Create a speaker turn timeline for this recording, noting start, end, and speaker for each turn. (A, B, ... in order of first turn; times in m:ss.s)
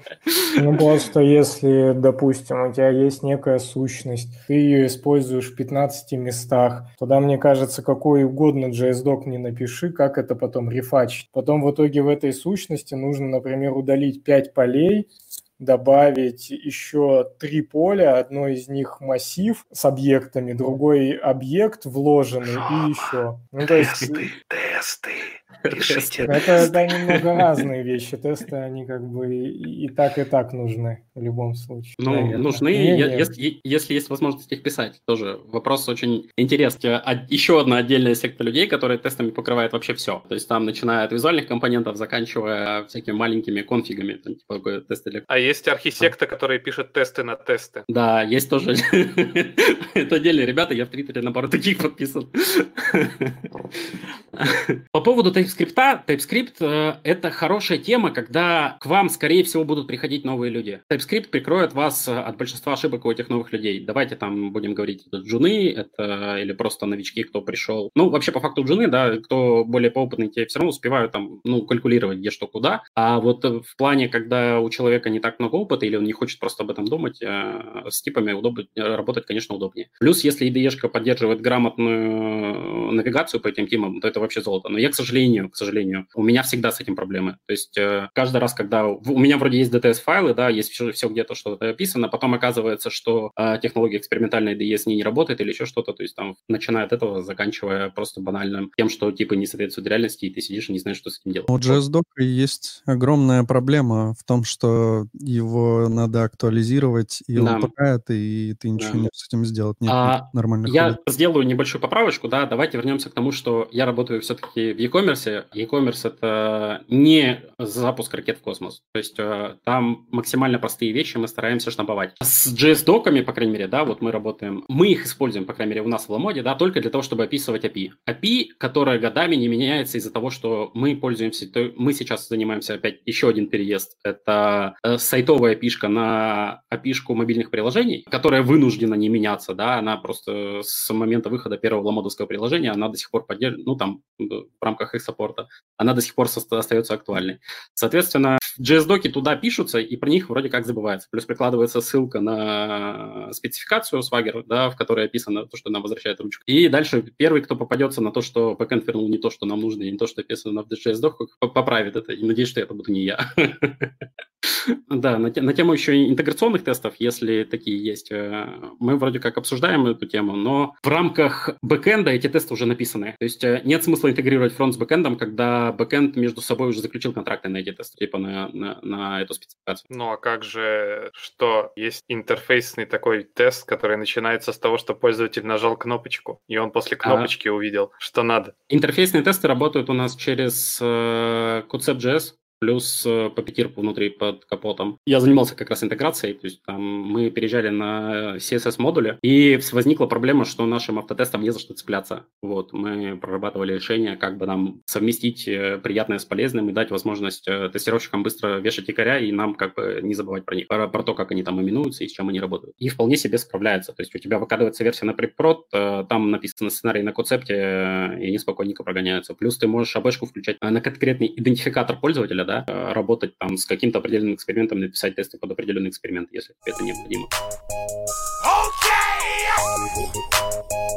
0:00.3-0:00.6 A
0:00.6-0:15.1 B
0:15.6-0:24.3 B
0:23.7-0:27.2 A
0:26.2-0:33.3 B
0:32.0-0:45.3 A
0:45.3-0:47.8 C
0:47.9-0:53.5 A
0:54.4-1:41.8 A
1:41.5-1:51.0 D
1:47.4-1:47.7 A
1:48.8-1:49.1 A
1:49.9-2:43.9 A
2:44.4-2:59.8 A
2:59.9-3:08.5 C
3:07.0-3:07.3 A
3:08.7-3:47.3 A